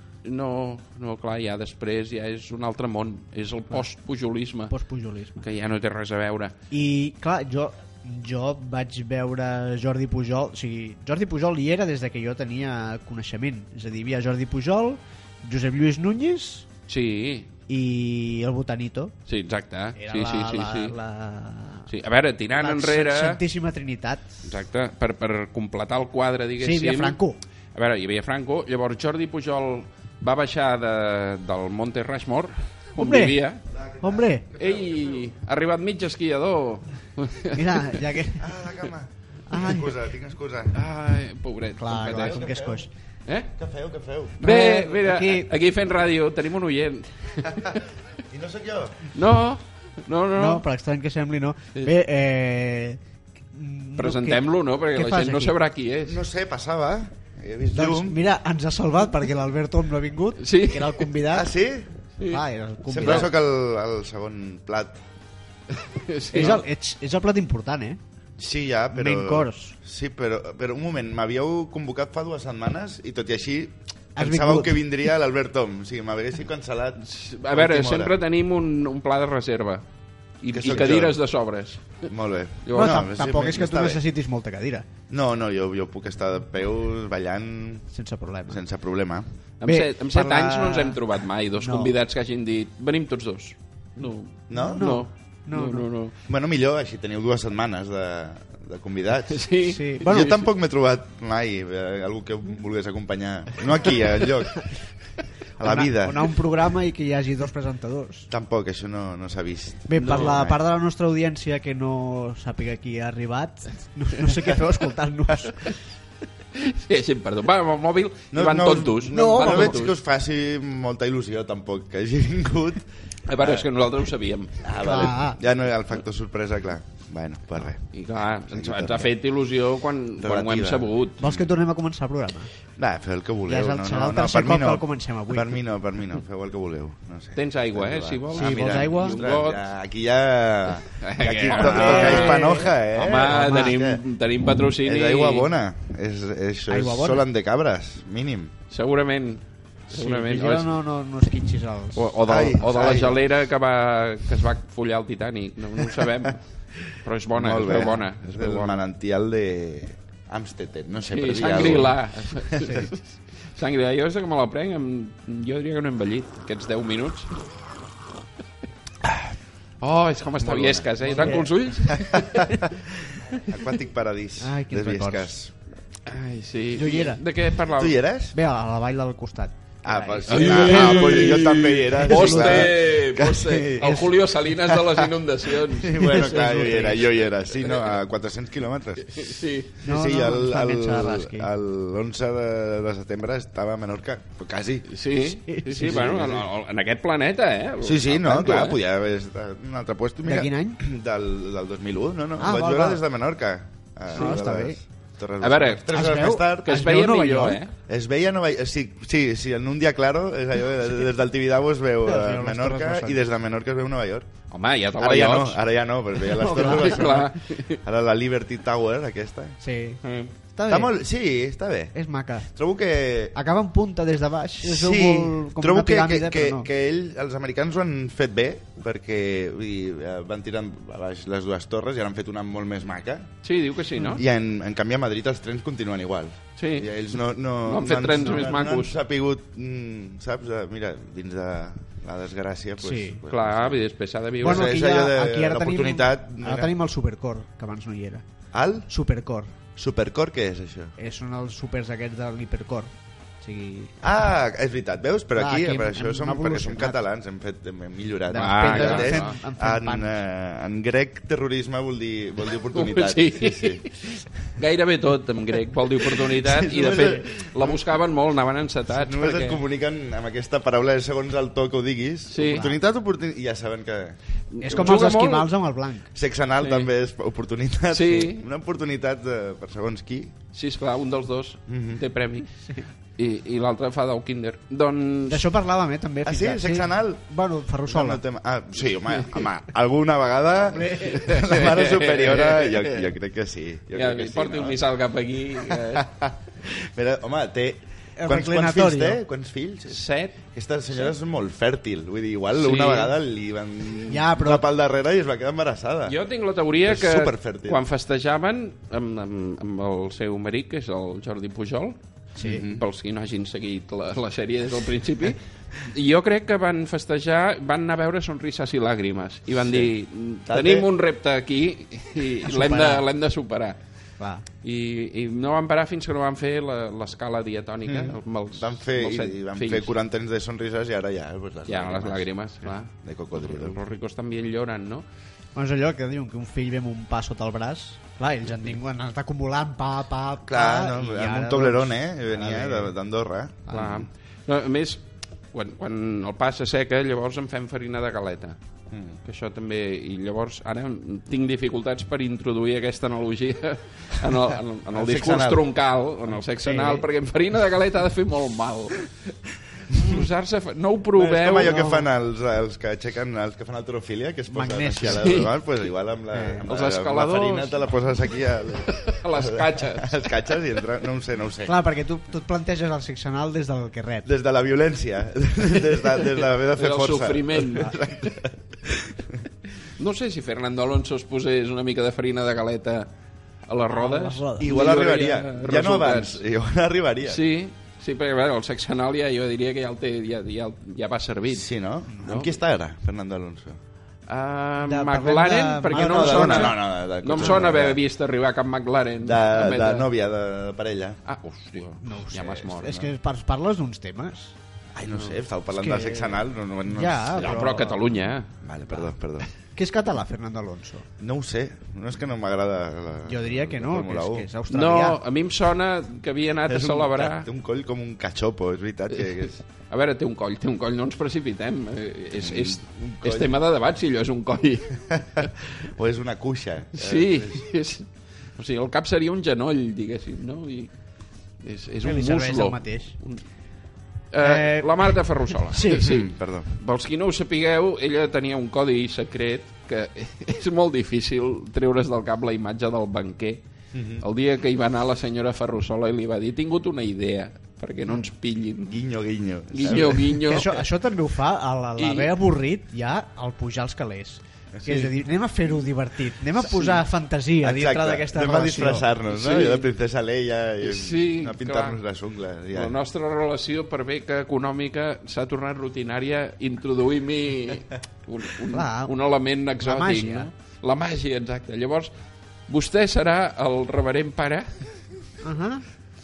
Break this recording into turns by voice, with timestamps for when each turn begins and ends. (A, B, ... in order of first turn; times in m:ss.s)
0:00.2-0:04.7 A
0:04.7-0:05.5 B
0:05.4-0:06.5 A
0:06.7-0:16.7 B
0:16.9-0:17.5 A
0:17.7-0:19.1 B
0:19.3-0:20.9 A
0:20.0-0:21.9 B
0:21.9-0:23.4 A
0:22.6-0:24.3 B
0:24.4-0:27.2 A
0:26.6-0:27.4 B
0:27.7-0:33.6 A
0:33.0-0:33.4 B
0:33.7-0:35.2 C
0:34.0-0:34.5 B
0:34.6-0:38.0 A
0:37.5-0:38.5 B
0:38.4-0:40.8 C
0:39.5-0:39.9 B
0:40.7-0:42.4 A
0:41.8-0:42.9 B
0:42.1-0:42.8 C
0:43.2-0:43.5 A
0:43.6-0:44.4 C
0:44.4-0:47.8 A
0:44.4-0:45.5 B
0:48.3-0:49.1 C
0:49.1-0:50.6 A
0:50.3-0:53.0 B
0:53.5-0:55.5 B
0:54.0-0:56.2 A
0:56.0-0:58.2 C
0:57.7-1:01.5 B
1:00.4-1:01.1 A
1:01.3-1:01.9 C
1:02.2-1:03.3 B
1:02.9-1:05.0 C
1:03.0-1:03.3 A
1:05.7-1:06.6 A
1:06.3-1:08.0 B
1:08.4-1:18.1 C
1:08.9-1:09.8 B
1:14.2-1:14.8 B
1:17.0-1:19.8 A
1:20.4-1:22.1 A
1:20.5-1:21.2 C
1:22.0-1:24.0 C
1:22.6-1:23.0 A
1:22.7-1:24.8 B
1:25.1-1:27.9 C
1:27.9-1:28.6 B
1:28.5-1:29.2 C
1:29.6-1:36.1 A
1:29.6-1:31.0 B
1:31.6-1:31.9 B
1:34.5-1:34.9 C
1:34.5-1:35.9 B
1:36.2-1:44.7 C
1:39.3-1:40.3 A
1:39.6-1:40.4 B
1:45.6-1:46.3 C
1:45.6-1:48.3 B
1:48.3-1:50.6 C
1:49.9-1:55.7 B
1:50.0-1:50.4 A
1:56.5-1:59.9 A
1:58.3-2:03.7 C
1:59.1-1:59.8 B
2:03.2-2:05.2 A
2:04.6-2:07.8 C
2:04.8-2:05.4 B
2:07.9-2:11.2 A
2:08.5-2:09.1 C
2:10.2-2:11.5 C
2:11.2-2:12.5 B
2:12.8-2:24.0 C
2:13.5-2:15.6 B
2:17.4-2:19.6 A
2:18.3-2:19.2 B
2:20.9-2:25.5 A
2:21.5-2:23.8 B
2:24.8-2:28.5 C
2:26.7-2:27.2 B
2:28.7-2:30.7 A
2:29.9-2:32.1 B
2:31.9-2:38.8 A
2:32.2-2:33.2 C
2:37.3-2:42.9 C
2:37.7-2:38.0 B
2:41.1-2:47.3 A
2:42.6-2:42.9 B
2:49.8-2:52.6 A
2:50.4-2:55.5 C
2:51.1-2:51.5 B
2:54.4-2:55.3 B
2:56.0-2:57.9 A
2:56.7-2:57.2 B
2:57.7-2:58.4 C
2:58.3-3:02.7 B
2:59.8-3:04.0 C
3:00.3-3:06.0 A
3:03.8-3:04.1 B
3:04.7-3:05.1 C
3:05.8-3:07.1 B
3:05.9-3:14.9 C
3:07.6-3:07.9 A
3:09.0-3:09.8 A
3:09.8-3:11.5 B
3:14.9-3:18.8 A
3:15.5-3:16.3 B
3:15.8-3:16.5 C
3:17.8-3:26.7 C
3:20.2-3:20.8 B
3:22.4-3:23.0 B
3:24.1-3:24.8 B
3:24.1-3:24.4 A
3:25.4-3:25.9 A
3:25.9-3:27.6 B
3:26.6-3:27.7 A
3:27.9-3:34.3 C
3:32.0-3:33.2 B
3:34.5-3:35.6 A
3:35.0-3:39.6 C
3:36.3-3:37.8 A
3:36.3-3:37.0 B
3:39.6-3:40.0 B
3:40.0-3:40.3 A
3:40.5-3:40.9 B
3:40.7-3:41.9 C
3:41.9-3:42.5 B
3:42.5-3:43.4 C
3:43.3-3:46.7 B
3:44.6-3:53.3 C
3:53.4-3:54.2 A
3:54.0-3:54.2 B
3:54.1-4:03.8 C
3:56.6-3:56.9 A
3:57.6-3:58.9 A
4:02.8-4:03.2 B
4:03.3-4:04.7 A
4:04.4-4:06.7 C
4:04.4-4:08.2 B
4:08.5-4:08.9 C
4:08.9-4:09.5 B
4:09.8-4:10.9 C
4:11.0-4:13.9 B
4:14.0-4:23.9 C
4:15.4-4:17.0 B
4:18.3-4:20.2 B
4:18.3-4:19.4 A
4:22.7-4:29.6 A
4:26.0-4:27.9 C
4:28.9-4:35.1 C
4:32.3-4:32.7 A
4:32.4-4:32.8 B
4:34.5-4:35.5 A
4:34.6-4:36.1 B
4:36.1-4:40.3 C
4:36.6-4:36.9 A
4:37.9-4:38.4 A
4:40.5-4:42.6 A
4:41.7-4:42.0 C
4:43.1-4:45.5 A
4:45.3-4:48.2 B
4:46.2-4:47.2 C
4:47.9-4:54.8 C
4:50.7-4:51.3 B
4:51.1-4:53.1 A
4:53.9-4:56.1 A
4:55.6-5:06.2 C
4:58.2-4:59.2 B
4:59.9-5:00.4 A
5:02.6-5:03.1 A
5:04.1-5:04.6 B
5:06.0-5:23.8 A
5:06.8-5:07.8 C
5:12.4-5:12.6 B
5:12.4-5:12.8 C
5:19.6-5:19.9 C
5:20.4-5:20.9 C
5:22.4-5:23.0 B
5:24.2-5:24.4 B
5:24.6-5:29.9 A
5:27.8-5:32.3 C
5:31.7-5:35.0 A
5:33.0-5:33.8 C
5:35.5-5:42.9 B
5:40.4-5:44.1 C
5:43.7-5:48.6 A
5:48.9-5:49.2 C
5:49.2-5:59.3 A
5:54.9-5:55.6 C
5:56.6-5:57.0 B
5:59.9-6:01.8 A
6:01.1-6:11.8 C
6:01.6-6:02.1 B
6:04.5-6:05.4 B
6:05.1-6:05.5 A
6:06.3-6:06.6 B
6:06.6-6:07.8 A
6:08.8-6:10.2 A
6:11.6-6:14.3 B
6:14.2-6:19.4 C
6:16.7-6:18.1 A
6:20.0-6:23.1 A
6:23.7-6:26.4 A
6:23.9-6:24.7 B
6:24.6-6:27.4 C
6:27.2-6:31.7 A
6:31.5-6:33.8 C
6:32.2-6:32.6 A
6:34.3-6:40.1 A
6:34.8-6:36.8 B
6:35.9-6:38.0 C
6:39.2-6:41.2 C
6:41.2-6:43.1 A
6:42.0-6:44.5 B
6:44.9-6:47.8 C
6:45.1-6:45.4 A
6:45.8-6:46.3 B
6:46.9-6:48.0 B
6:47.3-6:48.5 A
6:48.6-6:49.5 C
6:49.8-6:51.1 B
6:51.2-6:54.5 C
6:53.2-6:55.2 B
6:54.7-6:57.5 A
6:56.6-6:59.6 C
6:59.2-7:05.5 A
7:02.3-7:03.5 C
7:05.1-7:07.6 C
7:06.9-7:10.9 A
7:11.6-7:13.4 A
7:12.0-7:13.1 B
7:14.3-7:23.6 A
7:14.4-7:16.1 B
7:16.0-7:16.7 C
7:23.9-7:24.2 C
7:24.2-7:29.0 A
7:28.9-7:30.6 C
7:29.7-7:30.8 A
7:30.4-7:39.1 B
7:32.0-7:32.3 A
7:34.7-7:35.0 C
7:37.6-7:43.0 C
7:39.3-7:39.8 A
7:40.8-7:42.0 A
7:42.7-7:52.1 A
7:48.7-7:49.1 B
7:49.8-7:50.5 B
7:52.7-7:54.8 A
7:55.4-7:55.8 B